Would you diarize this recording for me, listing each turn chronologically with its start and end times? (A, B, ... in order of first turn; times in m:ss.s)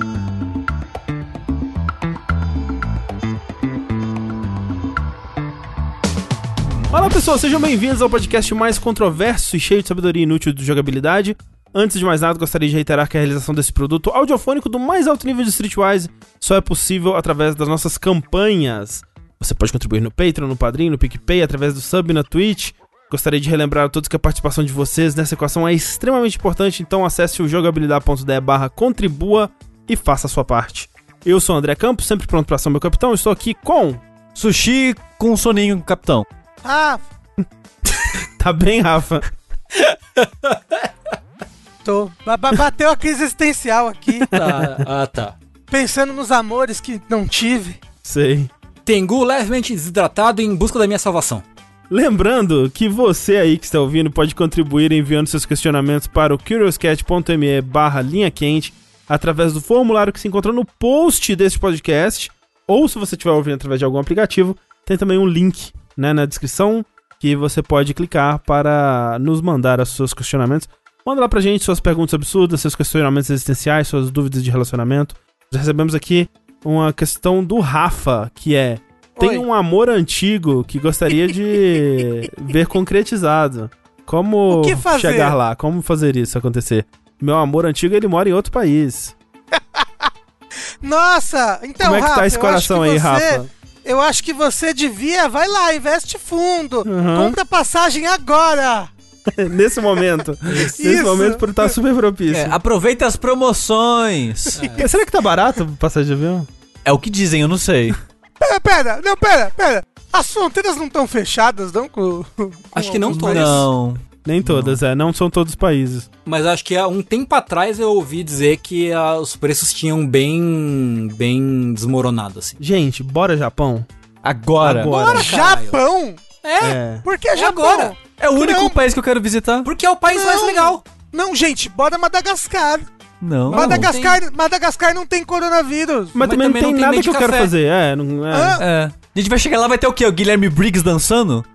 0:06.9-0:34.0 A
0:34.4-0:36.3 B
0:36.6-0:37.0 C
0:38.4-0:39.3 A
0:40.2-0:40.9 D
0:41.8-0:44.3 C
0:44.2-0:44.8 A
0:44.3-0:45.4 D
0:45.7-0:47.8 C
0:48.0-0:48.5 A
0:48.9-0:51.4 D
0:51.9-1:29.2 A
1:19.2-1:19.4 C
1:24.5-1:25.4 C
1:29.8-1:30.1 C
1:30.8-1:38.9 C
1:31.8-1:33.5 A
1:36.9-1:37.4 A
1:39.3-1:42.6 A
1:40.6-1:41.7 C
1:42.3-1:44.6 B
1:44.6-1:44.9 D
1:44.6-1:44.9 C
1:44.8-1:46.5 A
1:46.8-1:48.0 B
1:48.4-1:53.7 C
1:52.7-1:53.7 D
1:53.1-1:54.8 B
1:54.2-1:56.1 A
1:56.3-2:02.6 D
2:02.6-2:03.9 A
2:04.2-2:05.0 B
2:04.6-2:05.3 A
2:04.8-2:05.8 D
2:05.1-2:06.2 C
2:06.4-2:06.8 D
2:06.6-2:07.0 A
2:07.0-2:08.8 C
2:07.3-2:07.9 D
2:08.2-2:09.7 B
2:09.6-2:10.8 D
2:10.1-2:12.9 C
2:13.2-2:13.9 B
2:13.5-2:14.2 D
2:13.5-2:16.2 C
2:16.2-2:18.6 A
2:16.2-2:17.5 D
2:18.3-2:18.6 C
2:18.6-2:21.5 B